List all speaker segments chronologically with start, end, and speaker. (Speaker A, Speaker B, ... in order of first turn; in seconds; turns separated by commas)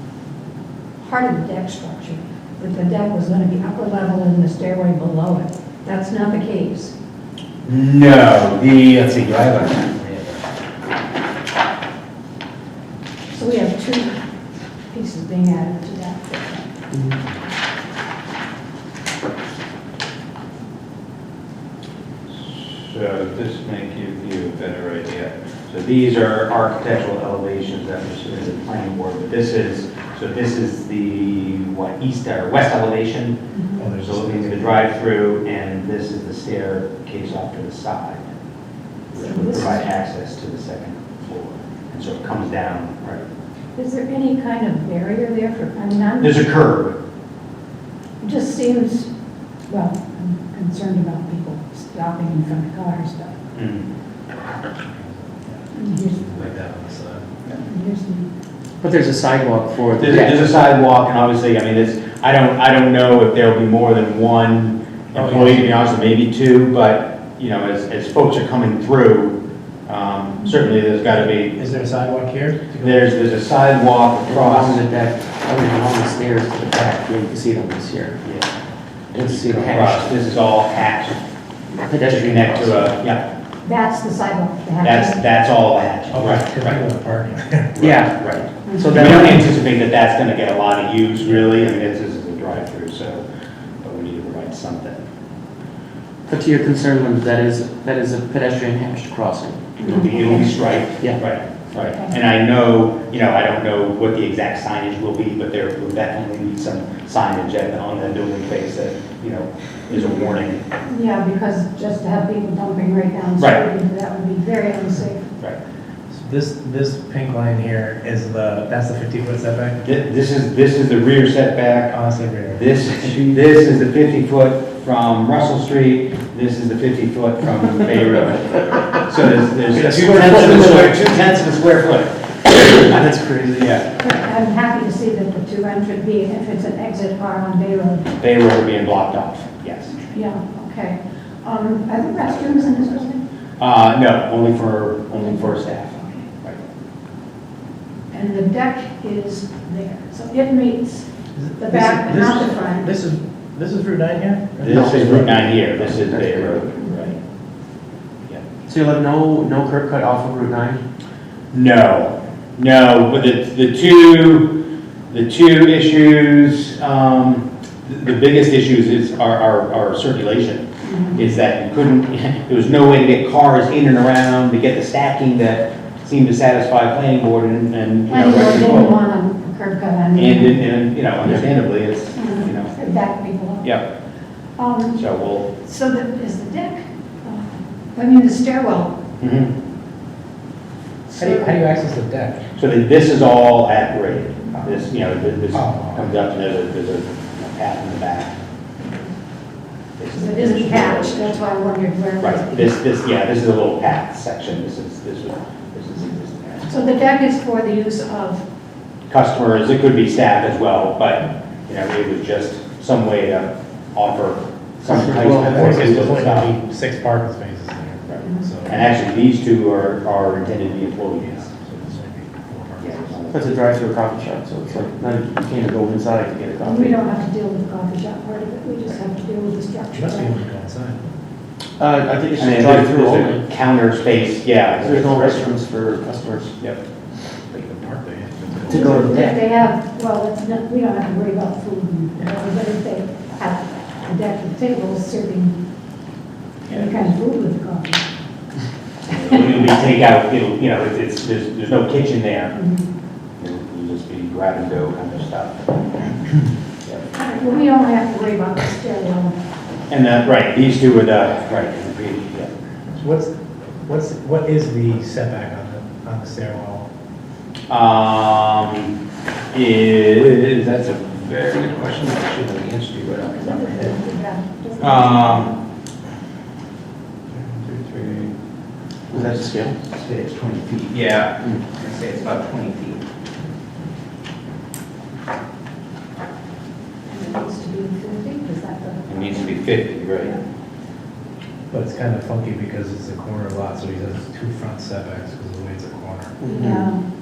Speaker A: 1.0-6.9, Speaker B: 7.6-10.4, Speaker A: 13.3-14.2, Speaker A: 14.9-16.7, Speaker C: 16.9-17.2, Speaker B: 22.3-33.4, Speaker A: 33.5-33.9, Speaker D: 33.8-34.8, Speaker B: 34.0-38.3, Speaker B: 39.1-43.2, Speaker A: 39.2-39.9, Speaker A: 43.8-46.5, Speaker B: 46.2-47.0, Speaker A: 48.2-49.1, Speaker A: 49.7-53.4, Speaker B: 53.5-53.9, Speaker D: 54.9-57.4, Speaker A: 55.7-56.2, Speaker A: 57.5-58.2, Speaker C: 58.8-60.5, Speaker B: 60.0-71.5, Speaker D: 65.1-65.8, Speaker D: 71.5-73.1, Speaker B: 72.8-74.8, Speaker C: 74.2-78.2, Speaker B: 78.2-78.5, Speaker C: 79.1-80.1, Speaker B: 79.2-81.2, Speaker C: 81.8-83.0, Speaker B: 82.1-83.2, Speaker A: 83.6-85.2, Speaker B: 84.8-86.8, Speaker D: 86.1-87.7, Speaker B: 87.7-93.2, Speaker C: 87.8-89.5, Speaker A: 88.7-89.2, Speaker B: 93.8-95.0, Speaker C: 96.3-100.1, Speaker A: 99.8-100.6, Speaker B: 99.9-110.6, Speaker A: 101.8-102.1, Speaker A: 109.9-110.2, Speaker A: 110.8-115.3, Speaker D: 116.1-119.8, Speaker B: 119.8-122.0, Speaker D: 121.9-122.7, Speaker B: 122.5-132.2, Speaker C: 129.7-131.1, Speaker C: 132.5-133.8, Speaker B: 133.6-133.9, Speaker A: 133.9-138.1, Speaker B: 138.2-140.0, Speaker A: 140.0-143.2, Speaker B: 142.2-143.0, Speaker B: 143.6-146.6, Speaker A: 148.1-152.9, Speaker D: 151.3-155.2, Speaker B: 154.6-157.1, Speaker C: 154.6-156.7, Speaker A: 156.8-157.1, Speaker C: 158.7-160.8, Speaker B: 161.5-179.0, Speaker A: 170.8-171.2, Speaker A: 178.1-180.7, Speaker B: 180.2-182.7, Speaker A: 182.2-183.7, Speaker A: 184.6-189.0, Speaker B: 184.9-185.5, Speaker B: 189.2-189.5, Speaker A: 191.1-191.6, Speaker D: 191.2-192.4, Speaker B: 192.6-198.3, Speaker D: 195.5-196.0, Speaker B: 200.0-201.4, Speaker A: 200.1-202.7, Speaker B: 202.2-207.0, Speaker A: 206.7-208.4, Speaker B: 209.1-216.5, Speaker C: 214.8-216.1, Speaker D: 215.3-218.8, Speaker B: 218.1-221.5, Speaker D: 221.2-222.9, Speaker B: 222.8-223.4, Speaker C: 223.3-227.0, Speaker A: 226.6-230.3, Speaker D: 229.9-231.0, Speaker C: 231.8-233.4, Speaker B: 232.4-235.6, Speaker C: 234.8-236.5, Speaker D: 237.5-239.1, Speaker C: 238.6-239.4, Speaker A: 238.7-245.6, Speaker A: 246.7-248.0, Speaker B: 249.1-252.6, Speaker A: 252.6-252.8, Speaker B: 253.4-256.2, Speaker A: 257.1-259.4, Speaker B: 259.9-262.5, Speaker D: 262.9-263.3, Speaker D: 263.9-266.9, Speaker B: 267.7-268.9, Speaker B: 269.5-273.9, Speaker A: 273.2-275.5, Speaker B: 274.8-275.5, Speaker B: 277.3-278.3, Speaker C: 279.1-279.8, Speaker B: 279.1-283.0, Speaker A: 287.1-289.6, Speaker B: 289.1-290.4, Speaker D: 291.7-296.4, Speaker C: 296.4-296.9, Speaker A: 296.5-297.0